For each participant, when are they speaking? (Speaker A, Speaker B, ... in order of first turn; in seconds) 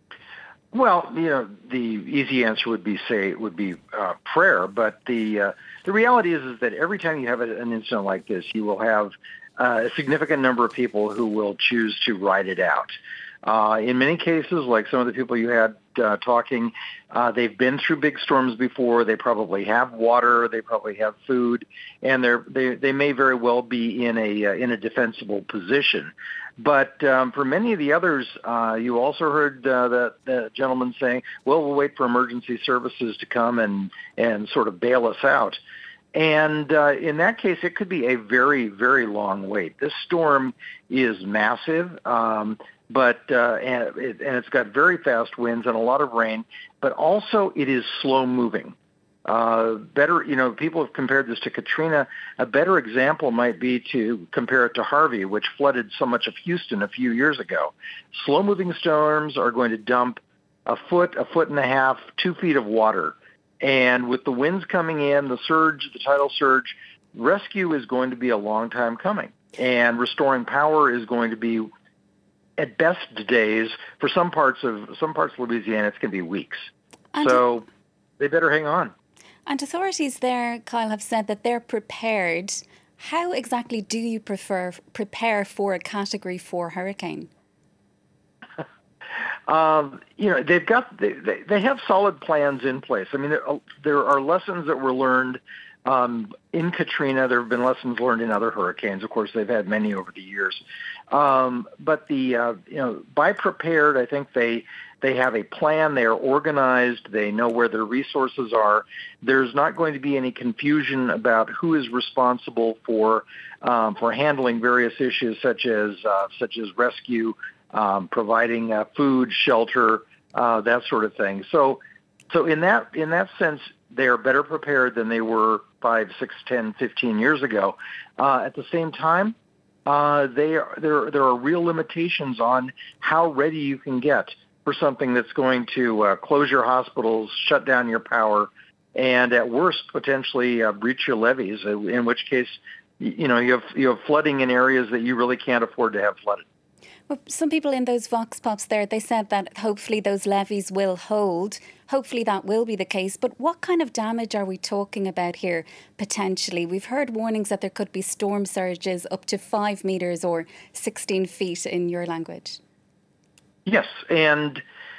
Speaker A: 0.7-35.6, 36.1-71.7, 72.6-76.7, 77.2-77.7, 78.2-78.9, 89.5-146.4, 163.7-164.6
Speaker B: 77.1-77.4, 79.5-87.3, 147.1-162.6